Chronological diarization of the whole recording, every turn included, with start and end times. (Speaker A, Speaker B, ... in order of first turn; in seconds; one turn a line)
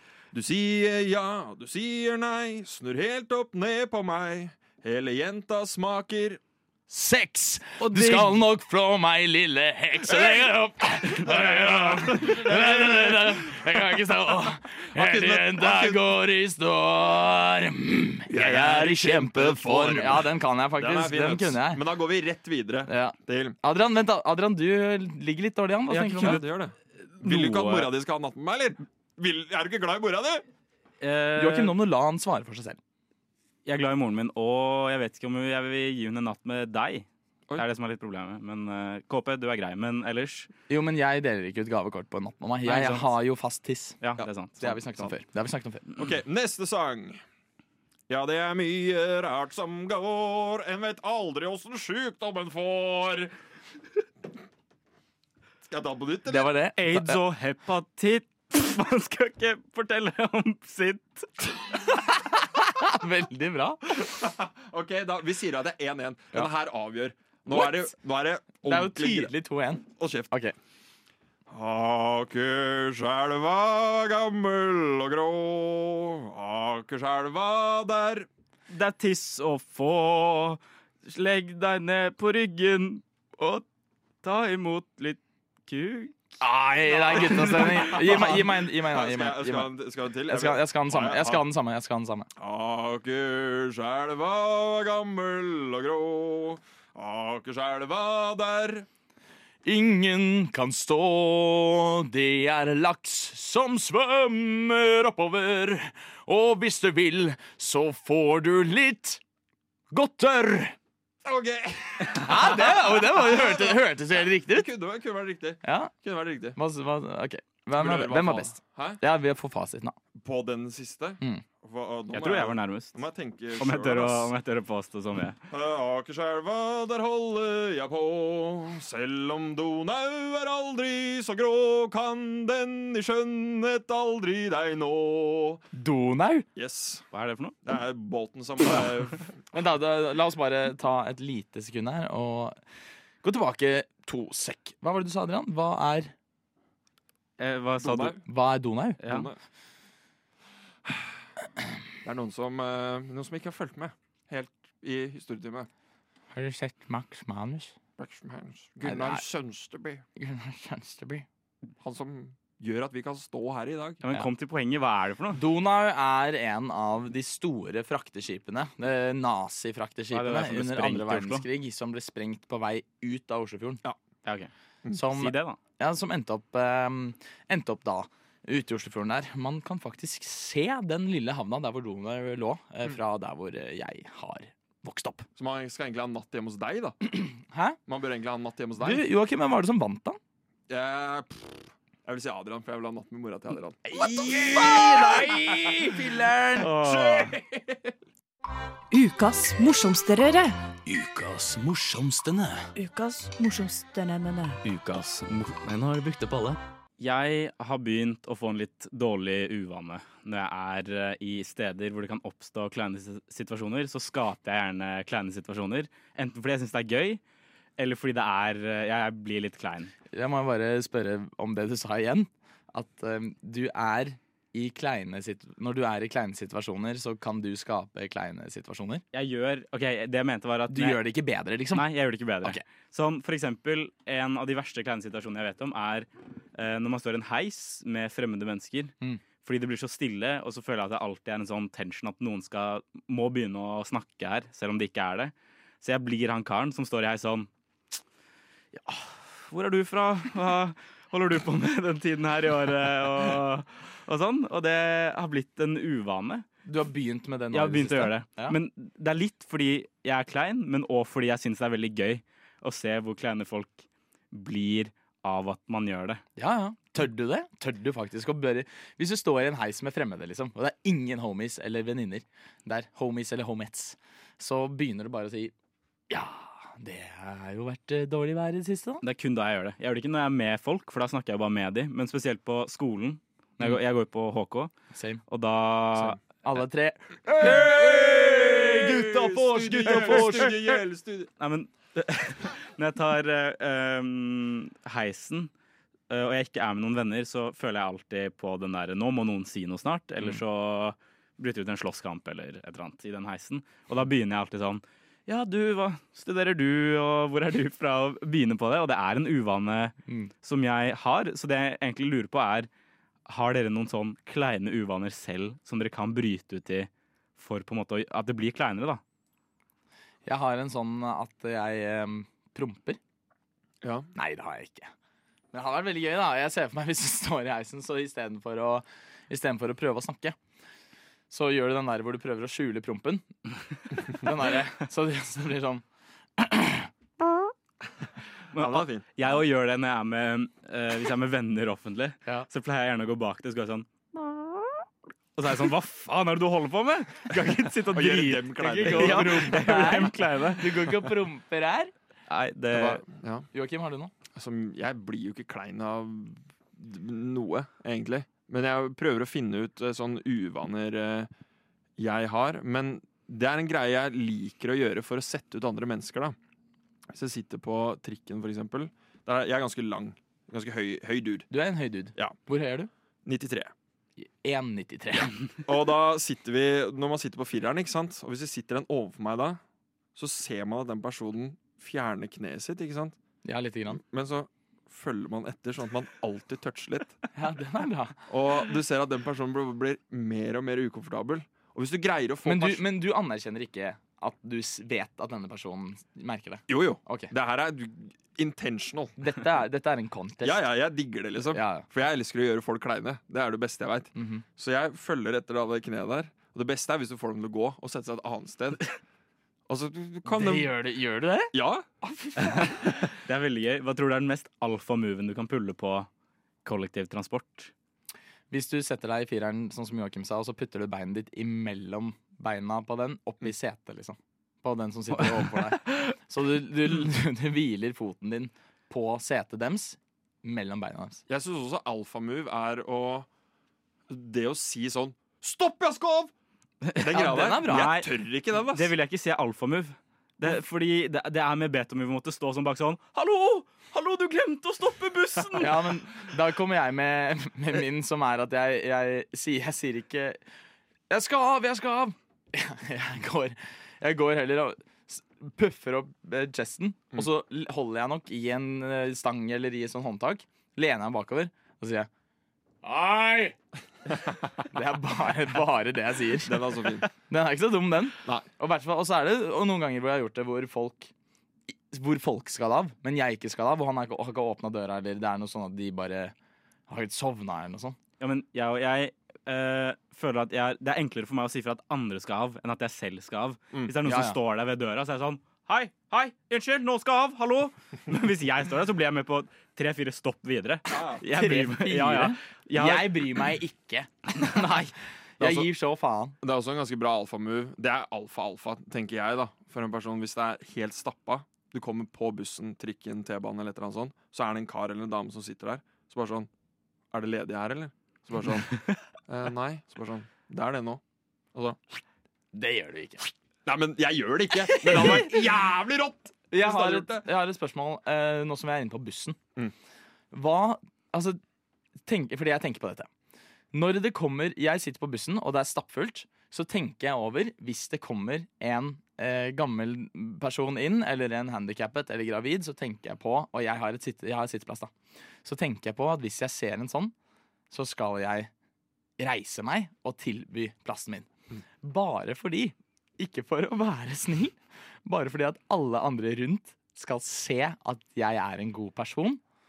Speaker A: 0.3-6.4
Speaker B: 6.9-21.8
Speaker C: 7.8-8.4
Speaker A: 11.3-13.4
Speaker A: 14.9-16.0
Speaker A: 18.3-23.6
Speaker B: 22.9-26.4
Speaker A: 25.9-30.4
Speaker C: 27.2-27.9
Speaker C: 31.0-31.7
Speaker B: 31.4-32.8
Speaker C: 33.6-40.5
Speaker B: 40.7-44.0
Speaker C: 42.6-43.1
Speaker C: 44.0-44.8
Speaker B: 44.6-45.9
Speaker A: 46.0-47.2
Speaker A: 48.1-53.3
Speaker A: 55.7-56.5
Speaker B: 56.3-57.2
Speaker C: 56.8-61.3
Speaker B: 62.1-63.9
Speaker A: 64.0-69.3
Speaker B: 67.5-67.9
Speaker B: 68.6-70.5
Speaker A: 70.0-70.3
Speaker A: 71.5-78.3
Speaker C: 78.7-83.6
Speaker C: 84.2-86.4
Speaker B: 86.4-89.7
Speaker A: 87.0-91.4
Speaker C: 87.1-88.0
Speaker B: 90.3-92.3
Speaker A: 92.4-98.9
Speaker B: 99.6-109.2
Speaker B: 109.9-110.8
Speaker A: 111.2-116.6
Speaker B: 112.1-114.7
Speaker B: 115.6-115.9
Speaker B: 116.5-120.0
Speaker A: 117.8-119.0
Speaker A: 120.2-124.3
Speaker C: 122.1-123.0
Speaker C: 123.6-125.4
Speaker A: 125.5-135.6
Speaker B: 135.7-136.4
Speaker A: 136.6-137.0
Speaker C: 137.1-137.6
Speaker A: 137.6-139.3
Speaker B: 139.5-142.6
Speaker B: 143.2-146.1
Speaker C: 147.4-148.2
Speaker A: 147.8-148.2
Speaker B: 148.2-149.0
Speaker C: 149.0-149.3
Speaker A: 149.1-149.4
Speaker A: 150.8-151.2
Speaker A: 152.0-155.7
Speaker B: 156.3-157.8
Speaker A: 158.0-160.0
Speaker B: 158.8-159.2
Speaker B: 160.2-161.2
Speaker A: 161.8-164.0
Speaker C: 164.0-165.4
Speaker B: 165.3-173.8
Speaker C: 170.1-171.4
Speaker C: 174.2-174.5
Speaker B: 174.9-185.2
Speaker C: 175.1-175.6
Speaker A: 185.4-187.0
Speaker B: 187.1-187.8
Speaker A: 187.9-189.0
Speaker B: 188.8-190.2
Speaker A: 190.7-197.9
Speaker B: 193.8-196.7
Speaker C: 196.6-197.4
Speaker D: 198.9-200.6
Speaker E: 200.8-202.7
Speaker D: 202.8-204.6
Speaker E: 204.6-206.6
Speaker C: 207.0-217.2
Speaker C: 217.8-219.9
Speaker B: 220.1-229.0
Speaker C: 229.1-231.0
Speaker B: 230.7-231.8
Speaker C: 231.7-247.5
Speaker C: 248.7-256.4
Speaker B: 256.6-258.6
Speaker C: 257.5-266.2
Speaker B: 266.4-275.5
Speaker B: 276.1-279.0
Speaker C: 279.0-284.7
Speaker B: 284.9-285.2
Speaker C: 285.3-286.2
Speaker B: 286.4-290.5
Speaker A: 287.4-291.3
Speaker C: 289.8-290.6
Speaker C: 291.4-295.5
Speaker C: 296.1-312.7
Speaker C: 313.2-319.0
Speaker B: 320.2-323.0
Speaker A: 323.8-324.1
Speaker B: 324.1-324.9
Speaker B: 325.5-330.4
Speaker B: 331.3-333.3
Speaker B: 334.1-335.8
Speaker B: 336.4-336.9
Speaker C: 338.5-343.9
Speaker A: 338.5-339.1
Speaker C: 345.4-351.1
Speaker A: 347.9-349.7
Speaker B: 348.6-351.9
Speaker C: 352.3-353.0
Speaker A: 352.7-353.4
Speaker B: 353.5-354.1
Speaker A: 354.3-361.3
Speaker A: 362.0-366.4
Speaker A: 367.1-371.5
Speaker B: 371.5-372.9
Speaker A: 373.2-373.7
Speaker B: 374.2-375.3
Speaker A: 375.6-379.6
Speaker A: 380.1-383.2
Speaker B: 383.4-384.0
Speaker A: 383.9-387.2
Speaker B: 387.3-388.2
Speaker A: 388.3-392.8
Speaker B: 392.4-397.3
Speaker A: 396.7-399.1
Speaker B: 399.2-400.6
Speaker A: 400.4-408.9
Speaker B: 401.5-401.9
Speaker B: 404.1-404.4
Speaker A: 409.7-410.7
Speaker B: 410.3-412.7
Speaker A: 411.5-412.0
Speaker C: 412.4-416.1
Speaker C: 416.6-417.7
Speaker B: 418.5-431.2
Speaker C: 425.4-425.9
Speaker A: 431.3-433.3
Speaker A: 434.1-436.3
Speaker C: 436.8-445.9
Speaker A: 436.9-438.9
Speaker B: 437.1-437.9
Speaker B: 445.6-450.4
Speaker B: 451.1-462.1
Speaker B: 462.8-463.6
Speaker B: 464.7-471.1
Speaker A: 466.4-467.1
Speaker B: 471.7-476.3
Speaker B: 476.9-478.0
Speaker C: 478.2-493.4
Speaker B: 484.0-484.4
Speaker A: 490.9-491.2
Speaker B: 491.2-496.4
Speaker C: 494.4-494.9
Speaker A: 495.4-495.7
Speaker A: 496.4-506.5
Speaker A: 507.1-511.0
Speaker A: 511.5-512.0
Speaker B: 512.5-513.3
Speaker A: 513.6-517.3
Speaker B: 514.7-515.4
Speaker B: 516.5-519.4
Speaker B: 520.3-521.4
Speaker B: 522.0-523.1
Speaker B: 523.7-534.9
Speaker B: 535.4-537.1
Speaker B: 537.7-538.5
Speaker B: 539.2-541.3
Speaker B: 541.8-549.4